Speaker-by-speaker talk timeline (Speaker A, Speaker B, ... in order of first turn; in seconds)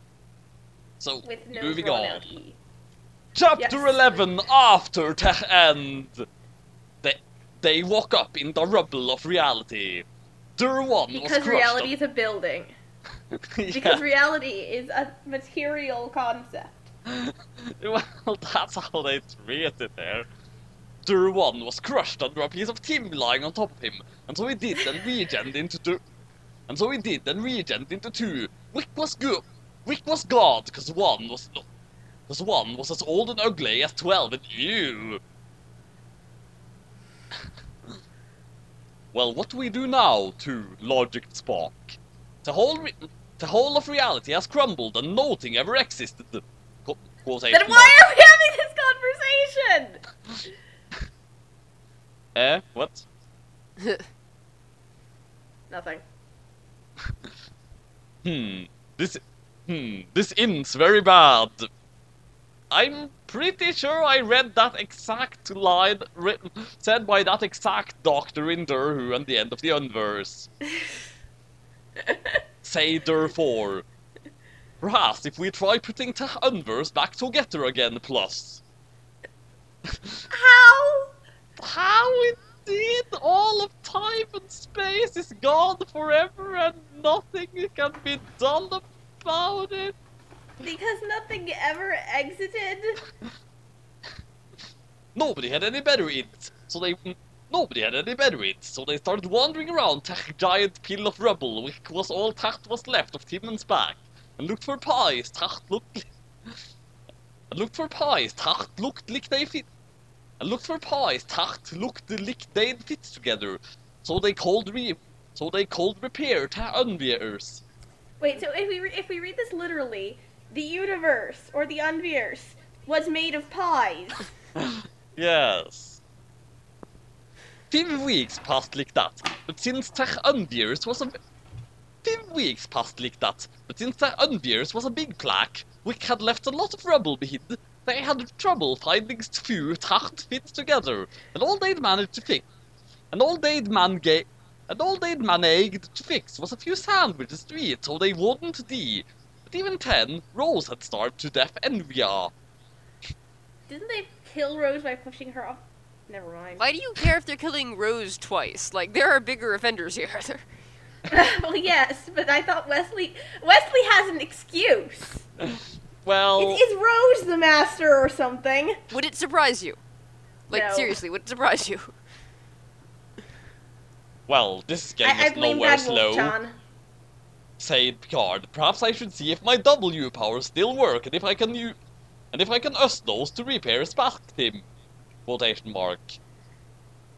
Speaker A: 1.0-2.3, 3.3-6.2, 7.0-10.1, 10.6-11.9, 13.6-14.0, 17.1-20.3, 21.0-26.0, 26.7-31.6, 32.3-35.2, 39.1-48.0, 52.3-53.0, 58.2-61.7, 62.7-70.5, 72.6-73.8, 74.8-78.6, 79.9-80.1, 81.6-90.0, 95.1-106.1, 107.5-109.7, 110.4-117.6, 124.6-126.0, 127.7-131.2, 132.0-142.5, 143.1-152.3, 166.0-166.6, 174.3-176.3, 177.6-181.8, 182.3-184.7, 185.3-186.2
Speaker B: 1.2-2.6, 3.6-4.2, 11.1-12.7, 13.7-16.9, 47.5-50.0, 55.7-56.0, 80.3-81.1, 90.6-93.0, 118.2-124.3, 153.7-156.7, 161.1-165.2, 166.4-168.8, 170.5-171.0, 175.0-176.6
Speaker C: 156.6-160.4, 168.9-169.8, 170.5-171.9